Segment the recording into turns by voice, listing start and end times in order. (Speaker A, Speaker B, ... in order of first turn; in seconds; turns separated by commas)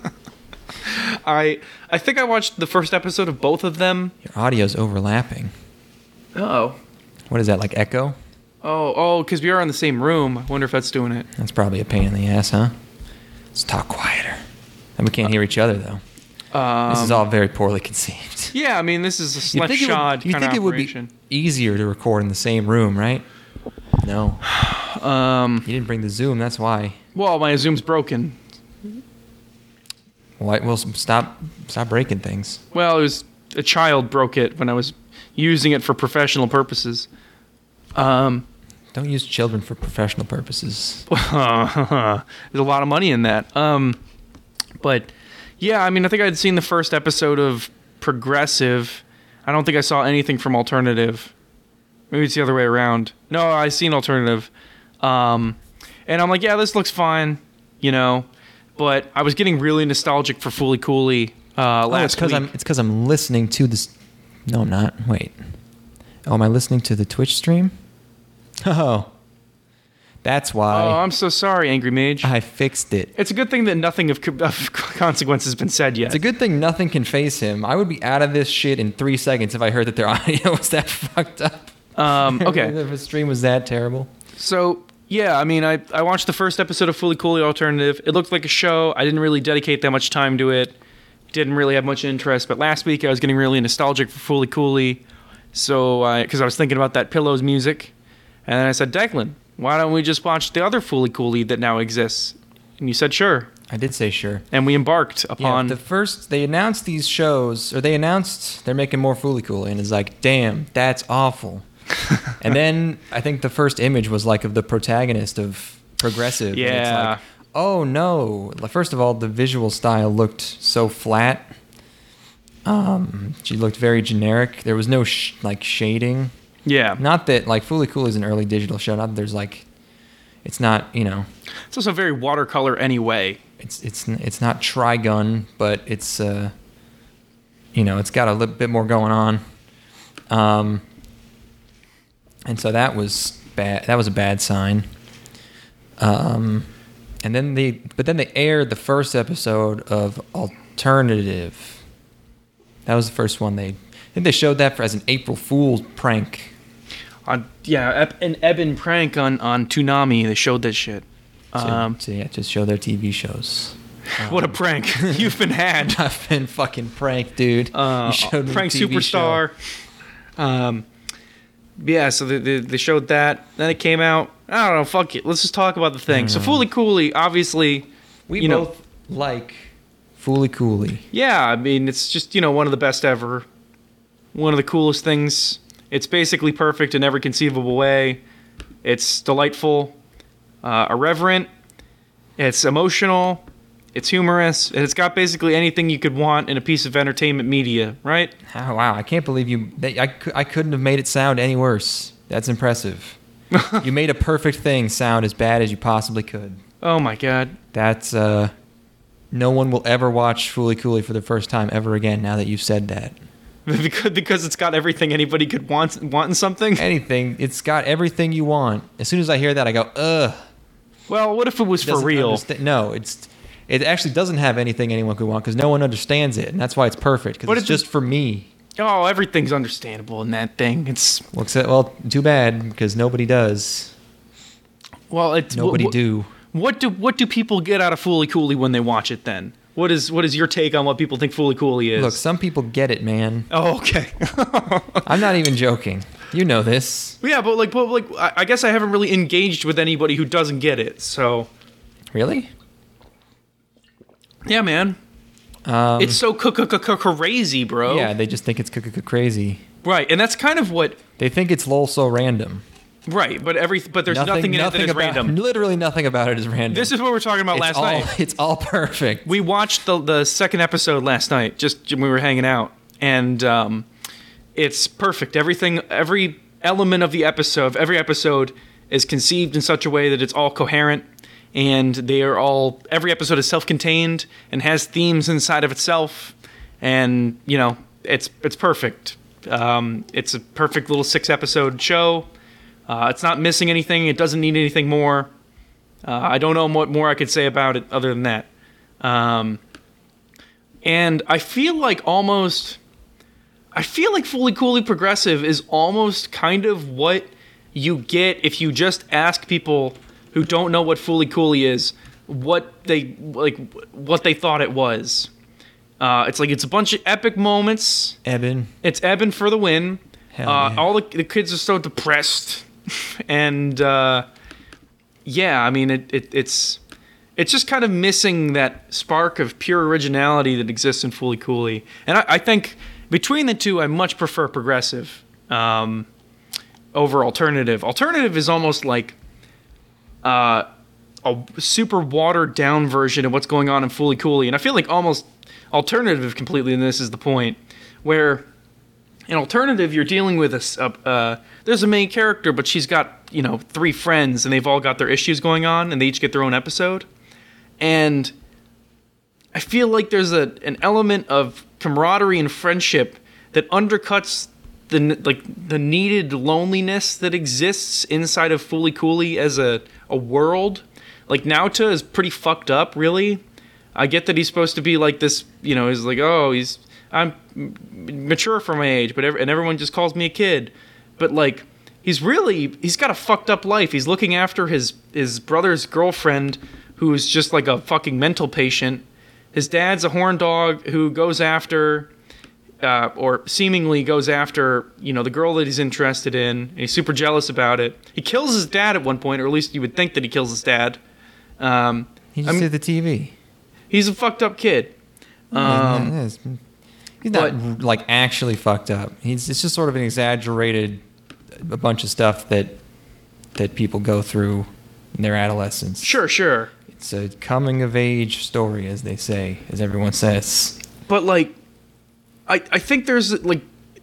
Speaker A: 0.8-4.1, Speaker B: 4.2-5.5, Speaker A: 6.3-6.8, Speaker B: 7.3-8.2, Speaker A: 8.6-11.3, Speaker B: 11.3-12.7, Speaker B: 13.5-14.4, Speaker B: 15.0-16.0, Speaker A: 16.5-17.2, Speaker B: 16.9-18.5, Speaker A: 18.5-21.1, Speaker B: 19.5-23.2, Speaker B: 24.0-24.4, Speaker A: 24.5-25.7, Speaker B: 25.6-27.0, Speaker A: 27.1-28.4, Speaker B: 30.4-32.6, Speaker A: 32.7-37.1, Speaker A: 38.0-38.5, Speaker B: 38.9-41.1, Speaker A: 41.1-44.0, Speaker A: 44.8-51.3, Speaker A: 52.1-54.5, Speaker A: 55.0-62.5, Speaker B: 61.9-63.9, Speaker B: 64.5-65.4, Speaker B: 66.3-67.7, Speaker B: 68.6-69.1, Speaker B: 70.2-71.0, Speaker A: 70.7-72.3, Speaker B: 72.2-73.1, Speaker A: 73.2-76.2, Speaker B: 76.1-84.1, Speaker A: 82.0-82.8, Speaker A: 84.4-90.8, Speaker A: 91.3-95.0, Speaker A: 95.5-97.9, Speaker A: 98.5-103.5, Speaker B: 103.7-104.5, Speaker A: 104.5-105.8, Speaker B: 105.4-111.7, Speaker B: 112.4-121.5, Speaker A: 116.5-117.2, Speaker B: 122.7-126.3, Speaker A: 126.7-127.0, Speaker B: 127.0-129.7, Speaker B: 130.4-131.3, Speaker A: 131.7-133.4, Speaker B: 133.6-136.5, Speaker B: 137.7-139.4, Speaker B: 140.3-140.8, Speaker B: 142.5-144.9, Speaker B: 146.0-146.7, Speaker B: 147.2-151.8, Speaker B: 152.9-156.5, Speaker A: 157.3-162.0, Speaker B: 161.6-169.4, Speaker A: 164.2-166.0, Speaker A: 167.7-169.6, Speaker A: 170.4-170.9, Speaker A: 171.8-177.9, Speaker B: 176.1-176.7, Speaker B: 178.3-181.1, Speaker A: 178.4-178.7, Speaker A: 181.1-183.5, Speaker A: 184.3-188.2, Speaker A: 188.8-189.9, Speaker A: 190.6-191.5, Speaker A: 192.4-193.4, Speaker A: 193.9-198.3, Speaker B: 198.5-203.2, Speaker A: 203.5-203.8, Speaker B: 203.8-206.6, Speaker A: 206.8-207.6, Speaker B: 207.7-208.5, Speaker B: 209.3-213.2, Speaker A: 213.7-216.9, Speaker B: 216.8-220.4, Speaker A: 221.1-222.4, Speaker B: 221.8-228.5, Speaker A: 227.5-227.8, Speaker A: 228.8-231.3, Speaker B: 231.3-233.9, Speaker A: 235.1-236.0, Speaker B: 235.5-236.3, Speaker A: 236.5-242.2, Speaker B: 242.0-243.5, Speaker A: 243.5-245.2, Speaker B: 245.1-247.2, Speaker A: 247.2-251.5, Speaker B: 252.1-252.5, Speaker A: 254.5-255.0, Speaker B: 255.7-256.2, Speaker A: 256.0-258.1, Speaker B: 257.9-259.6, Speaker A: 259.8-261.0, Speaker B: 261.2-262.6, Speaker A: 263.1-265.3, Speaker B: 264.1-266.9, Speaker A: 266.7-268.1, Speaker B: 267.5-269.3, Speaker A: 269.3-273.9, Speaker A: 274.6-292.3, Speaker A: 292.9-295.3, Speaker A: 296.1-298.5, Speaker A: 299.0-299.6, Speaker A: 300.8-302.8, Speaker A: 303.7-315.3, Speaker A: 316.0-318.2, Speaker B: 318.2-318.7, Speaker A: 318.8-324.3, Speaker B: 320.3-320.9, Speaker A: 325.2-326.8, Speaker A: 327.4-336.1, Speaker A: 336.9-339.2, Speaker A: 340.2-340.7, Speaker A: 341.2-348.5, Speaker A: 349.3-357.1, Speaker A: 357.8-358.3, Speaker A: 359.5-373.4, Speaker A: 373.9-392.1, Speaker A: 392.8-401.0, Speaker A: 401.6-402.7, Speaker B: 402.4-403.4, Speaker A: 403.9-404.9, Speaker A: 405.5-406.1, Speaker B: 405.6-406.6, Speaker B: 407.2-411.0, Speaker B: 411.6-412.8, Speaker B: 413.6-416.1, Speaker A: 416.0-416.7, Speaker B: 416.9-420.8, Speaker A: 421.1-421.5, Speaker A: 422.5-423.6